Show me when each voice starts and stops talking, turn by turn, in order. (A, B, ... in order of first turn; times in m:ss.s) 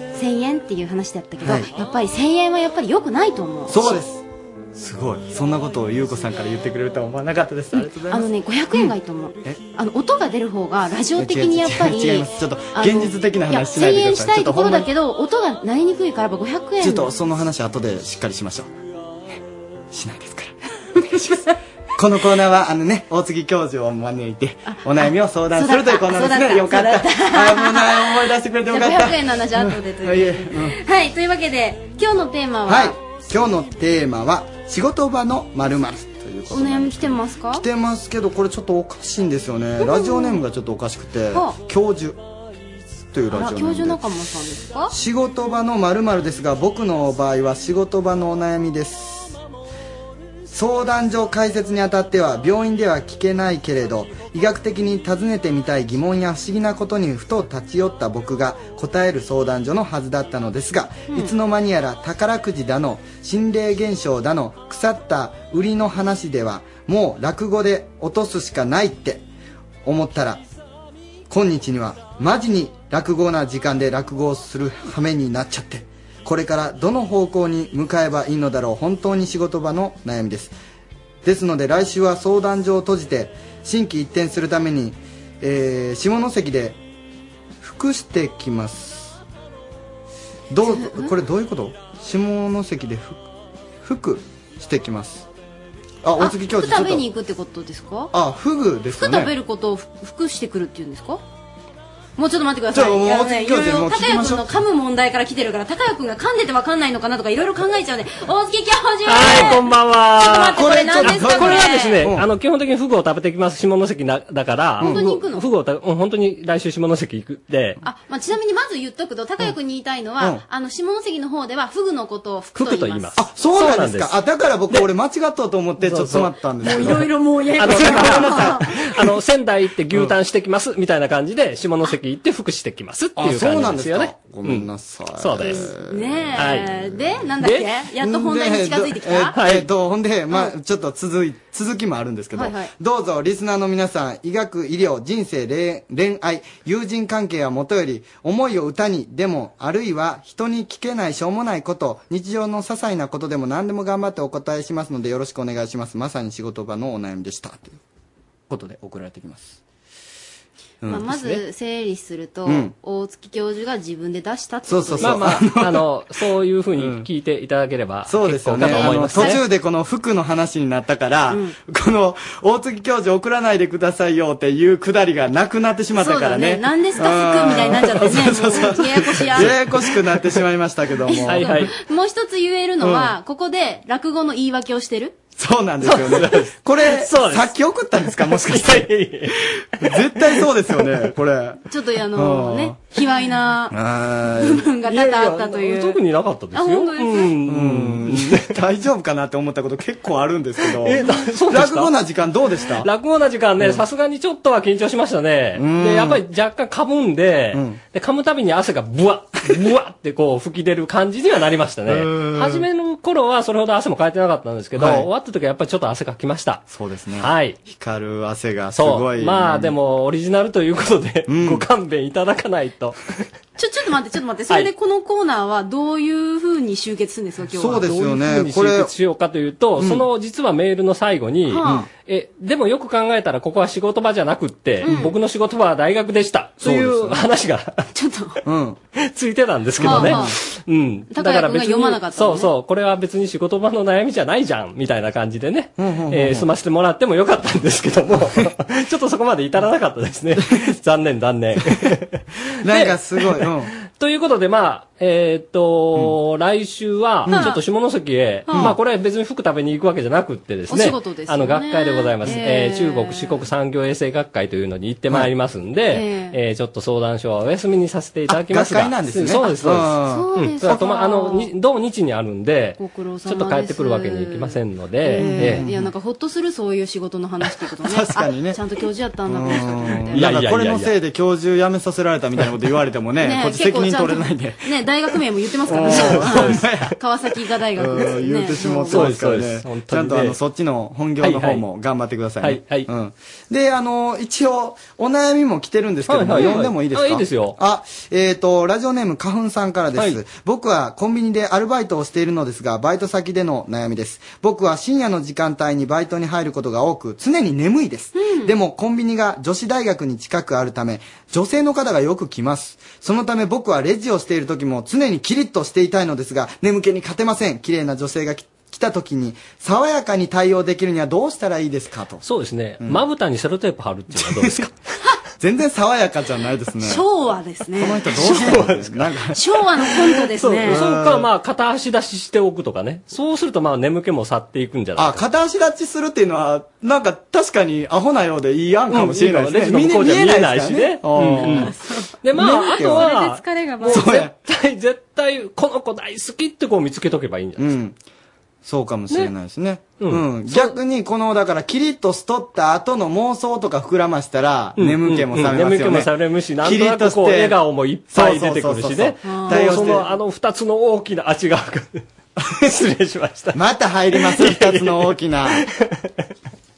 0:00.1-0:04.0 A
0:01.4-0:01.7 B
0:03.7-0:04.2 B
0:04.7-0:08.9 B
0:07.7-0:17.1 A
0:11.1-0:14.9 B
0:16.8-0:18.7 B
0:19.9-0:30.8 B
0:25.5-0:28.1 A
0:28.7-0:33.0 A
0:32.7-0:42.2 B
0:36.5-0:37.6 A
0:39.8-0:40.4 A
0:43.1-0:44.0 B
0:43.3-0:44.9 A
0:44.9-0:49.4 B
0:50.5-1:09.2 B
1:09.8-1:10.4 B
1:11.3-1:20.5 B
1:21.2-1:26.8 B
1:27.6-1:29.2 B
1:30.5-1:33.2 B
1:30.7-1:31.1 A
1:33.8-1:35.3 B
1:36.0-1:37.0 B
1:36.2-1:38.1 A
1:38.1-1:39.3 B
1:38.9-1:41.2 A
1:42.2-1:49.6 A
1:42.7-1:44.5 B
1:49.0-1:57.8 C
1:50.2-1:52.0 A
1:50.4-1:52.2 B
1:54.8-1:55.4 A
1:57.8-2:03.2 A
2:00.2-2:00.4 B
2:02.6-2:04.2 C
2:03.1-2:08.7 B
2:05.8-2:07.0 C
2:06.6-2:08.6 A
2:07.6-2:14.6 C
2:13.2-2:17.3 B
2:15.2-2:15.6 C
2:15.4-2:19.4 A
2:16.4-2:16.7 C
2:17.4-2:17.7 C
2:18.0-2:37.8 B
2:19.3-2:19.7 C
2:22.3-2:22.7 A
2:38.5-2:39.6 B
2:40.8-2:41.1 B
2:40.9-2:45.4 A
2:41.0-2:41.4 C
2:42.4-2:42.7 B
2:44.6-2:45.8 B
2:45.0-2:49.4 C
2:46.8-2:47.0 B
2:48.1-3:01.7 B
2:48.6-2:49.4 A
2:51.3-2:51.5 A
2:56.0-2:59.6 A
2:58.1-2:58.7 C
3:01.1-3:05.1 A
3:01.1-3:01.7 C
3:02.8-3:03.2 B
3:05.4-3:08.9 B
3:05.8-3:07.5 C
3:08.1-3:09.3 C
3:09.8-3:11.6 B
3:09.9-3:10.4 C
3:11.7-3:13.8 A
3:12.1-3:12.8 B
3:13.7-3:14.7 B
3:14.4-3:16.0 A
3:14.8-3:18.5 C
3:16.5-3:17.3 A
3:17.5-3:22.9 B
3:20.7-3:21.9 C
3:22.6-3:36.6 C
3:25.6-3:26.2 B
3:27.5-3:27.8 B
3:31.9-3:32.6 B
3:34.8-3:35.1 B
3:36.7-3:39.7 B
3:37.2-3:37.6 C
3:38.7-3:43.0 C
3:41.3-3:41.6 B
3:43.6-3:48.0 A
3:47.5-3:48.9 B
3:47.8-3:57.9 C
3:49.8-3:50.0 B
3:51.5-3:51.8 A
3:51.6-3:51.9 B
3:54.8-3:55.1 A
3:56.6-3:57.2 B
3:57.9-3:58.4 A
3:58.4-3:58.8 B
3:59.0-4:12.1 C
3:59.8-4:00.3 B
3:59.8-4:00.4 A
4:01.1-4:02.5 A
4:05.8-4:06.4 B
4:12.6-4:13.7 B
4:12.6-4:35.6 C
4:17.3-4:17.5 B
4:17.3-4:17.6 A
4:18.4-4:18.7 A
4:20.7-4:23.4 A
4:25.9-4:26.4 A
4:28.3-4:31.1 B
4:30.1-4:31.5 A
4:32.8-4:40.2 A
4:35.1-4:35.9 B
4:37.8-4:38.6 B
4:39.3-4:44.7 B
4:40.1-4:40.9 C
4:43.2-4:49.1 A
4:45.7-4:46.9 B
4:45.8-4:46.8 C
4:47.8-5:22.2 B
4:48.8-4:50.3 C
4:51.2-4:51.6 C
4:52.4-4:52.9 C
4:56.1-4:57.6 C
5:08.1-5:08.5 A
5:22.2-5:24.7 C
5:25.4-5:27.0 B
5:26.8-5:28.5 A
5:27.7-5:29.5 B
5:28.1-5:29.1 C
5:29.3-5:30.8 A
5:30.1-5:35.2 C
5:30.6-5:31.3 B
5:35.0-5:41.7 B
5:38.9-5:47.6 C
5:41.4-5:44.3 A
5:42.5-5:43.1 B
5:43.8-5:44.3 B
5:47.6-5:48.0 B
5:48.6-5:56.1 B
5:50.0-5:50.8 C
5:54.8-6:03.6 C
5:56.6-5:57.6 B
5:58.1-6:00.1 B
5:59.2-5:59.9 A
6:03.5-6:05.6 B
6:04.1-6:06.0 C